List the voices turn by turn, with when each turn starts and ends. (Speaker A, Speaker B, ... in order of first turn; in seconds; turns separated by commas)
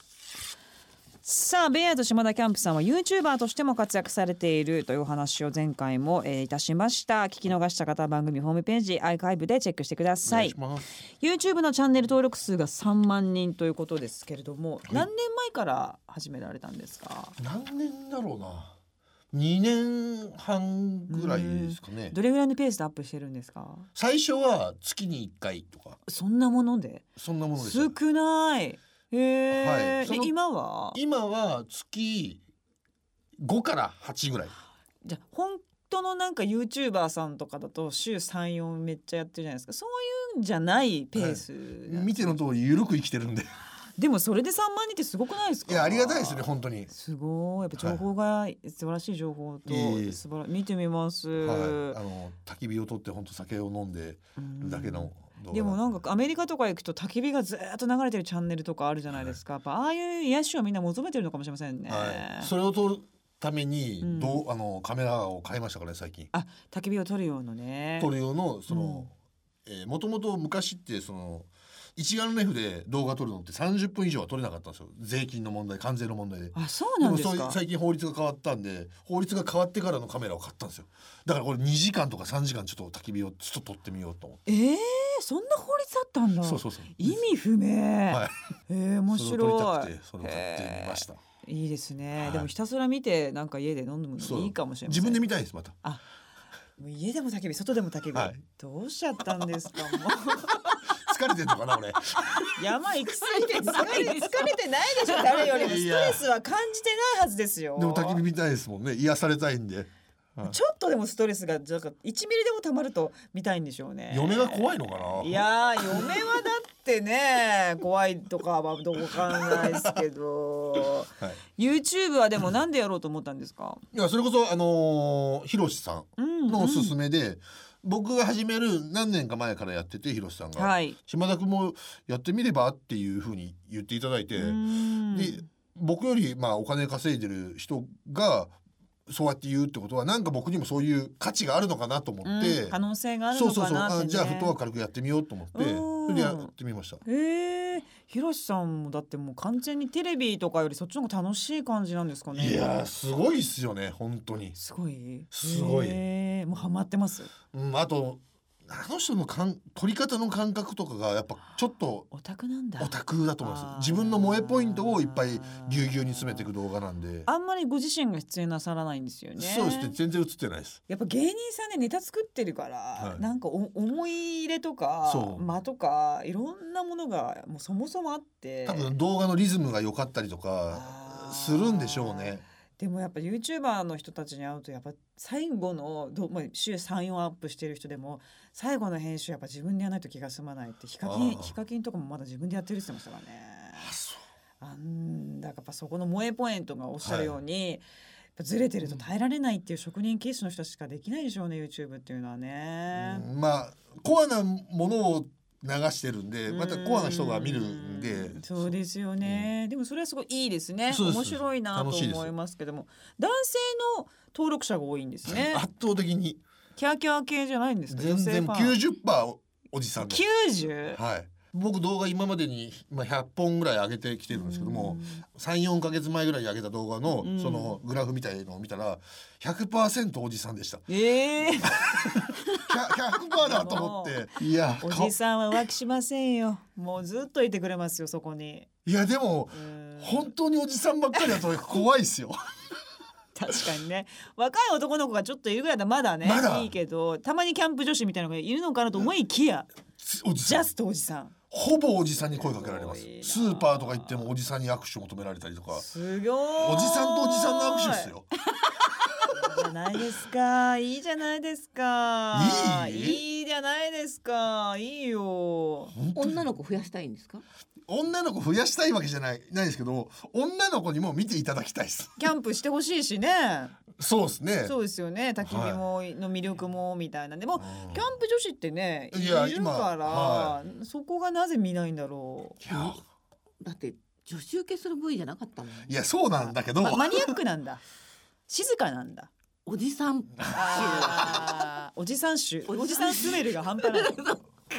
Speaker A: 1.2-10.6, Speaker B: 10.2-10.8, Speaker A: 11.2-17.4, Speaker B: 17.4-18.7, Speaker B: 19.3-22.1, Speaker A: 21.1-23.9, Speaker B: 23.9-26.0, Speaker A: 26.1-27.1, Speaker B: 27.2-27.9, Speaker A: 27.6-31.0, Speaker B: 29.5-30.3, Speaker B: 30.9-32.4, Speaker B: 33.4-34.5, Speaker A: 35.0-42.3, Speaker B: 41.1-43.5, Speaker A: 44.0-52.0, Speaker B: 45.6-46.9, Speaker B: 49.6-50.2, Speaker B: 51.4-55.9, Speaker A: 54.4-62.5, Speaker B: 61.9-66.3, Speaker A: 64.0-64.4, Speaker A: 66.3-68.1, Speaker B: 68.0-69.1, Speaker A: 68.7-69.1, Speaker B: 69.7-84.4, Speaker A: 76.5-77.6, Speaker A: 84.5-95.2, Speaker B: 86.4-87.2, Speaker B: 88.1-88.3, Speaker B: 89.1-91.2, Speaker B: 92.2-92.5, Speaker B: 94.2-95.8, Speaker A: 96.8-100.8, Speaker B: 98.1-98.4, Speaker B: 100.9-102.4, Speaker A: 102.5-108.2, Speaker C: 103.8-104.1, Speaker B: 105.4-106.2, Speaker B: 107.8-110.5, Speaker A: 110.4-123.8, Speaker B: 114.1-116.2, Speaker B: 119.2-120.0, Speaker B: 123.9-138.5, Speaker A: 126.2-126.9, Speaker A: 130.6-130.9, Speaker A: 134.3-135.4, Speaker B: 139.1-142.8, Speaker A: 142.2-144.5, Speaker B: 143.3-147.0, Speaker A: 145.5-146.5, Speaker A: 147.0-152.7, Speaker B: 152.3-154.5, Speaker A: 154.6-157.3, Speaker B: 155.3-156.0, Speaker B: 157.5-162.1, Speaker A: 162.1-166.5, Speaker B: 162.8-167.3, Speaker A: 167.2-169.9, Speaker B: 169.4-170.8, Speaker A: 170.9-178.9, Speaker B: 173.0-173.2, Speaker B: 175.0-175.4, Speaker B: 178.6-182.4, Speaker A: 180.7-193.9, Speaker B: 191.0-191.5, Speaker B: 193.8-194.2, Speaker A: 194.6-197.8, Speaker B: 197.0-197.3, Speaker A: 198.3-203.2, Speaker B: 202.9-209.5, Speaker A: 206.5-215.6, Speaker B: 210.9-212.3, Speaker B: 215.2-216.4, Speaker A: 216.8-218.8, Speaker B: 217.9-220.2, Speaker A: 220.0-221.0, Speaker B: 220.9-230.9, Speaker A: 224.3-225.2, Speaker A: 227.2-227.8, Speaker A: 230.9-232.7, Speaker B: 231.4-235.1, Speaker A: 233.3-234.3, Speaker A: 234.8-238.7, Speaker B: 238.8-242.4, Speaker A: 239.5-240.3, Speaker A: 243.3-249.7, Speaker B: 246.2-246.7, Speaker B: 250.0-250.7, Speaker A: 250.4-251.3, Speaker B: 251.5-255.8, Speaker A: 252.3-254.3, Speaker A: 255.7-258.1, Speaker B: 256.6-258.3, Speaker A: 259.3-265.9, Speaker B: 262.3-263.2, Speaker B: 265.9-266.4, Speaker C: 266.1-267.4, Speaker B: 267.9-272.2, Speaker A: 272.2-273.8, Speaker B: 274.0-274.7, Speaker A: 274.6-282.6, Speaker B: 275.4-275.8, Speaker B: 277.6-278.1, Speaker B: 279.1-280.6, Speaker B: 282.6-283.0, Speaker C: 282.7-282.9, Speaker C: 283.6-285.9, Speaker B: 285.9-287.3, Speaker A: 286.8-287.8, Speaker A: 288.5-289.3, Speaker C: 289.6-291.7, Speaker A: 290.5-294.2, Speaker C: 292.7-294.4